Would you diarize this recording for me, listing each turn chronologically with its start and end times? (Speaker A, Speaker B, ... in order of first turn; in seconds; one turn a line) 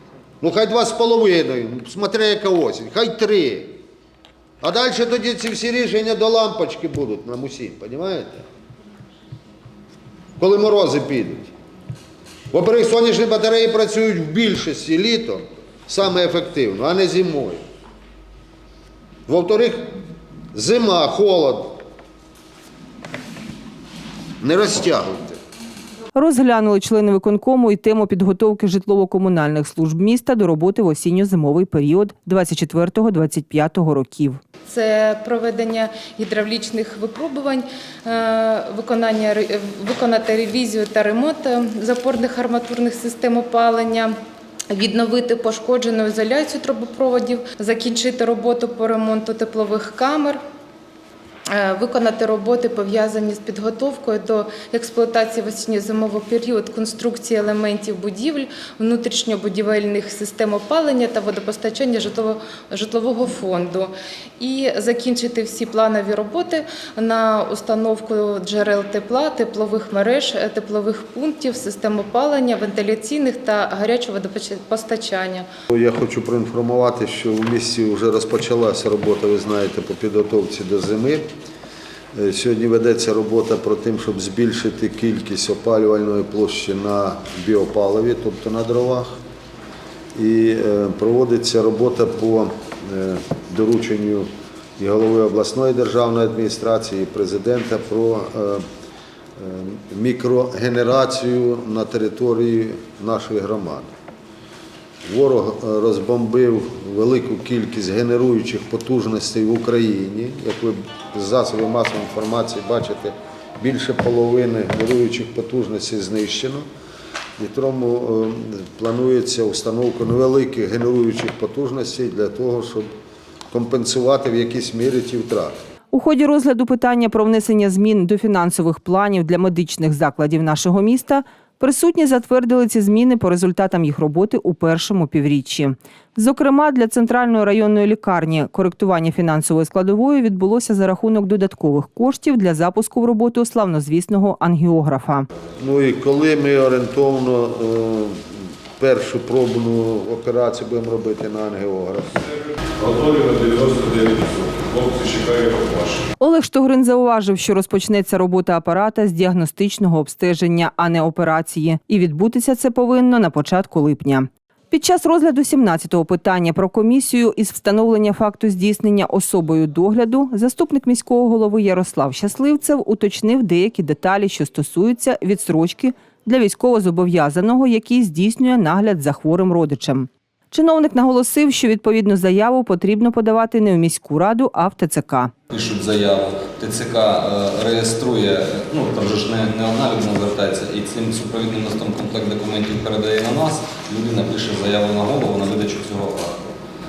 Speaker A: 0.4-3.8
Speaker A: 4.6-8.5
Speaker A: 10.4-11.5
Speaker A: 12.5-17.6
Speaker A: 19.3-20.0
Speaker A: 20.5-21.8
Speaker A: 24.4-25.4
Speaker B: 26.2-34.4
Speaker C: 34.7-44.2
Speaker C: 44.7-50.4
Speaker C: 51.5-75.5
Speaker A: 75.7-81.3
Speaker A: 82.1-89.2
Speaker A: 90.2-98.7
Speaker A: 99.4-103.9
Speaker A: 105.0-116.7
Speaker A: 117.4-122.9
Speaker A: 123.5-125.6
Speaker B: 125.9-145.3
Speaker A: 145.6-152.2
Speaker D: 152.8-156.1
Speaker B: 156.2-185.3
Speaker E: 185.5-196.6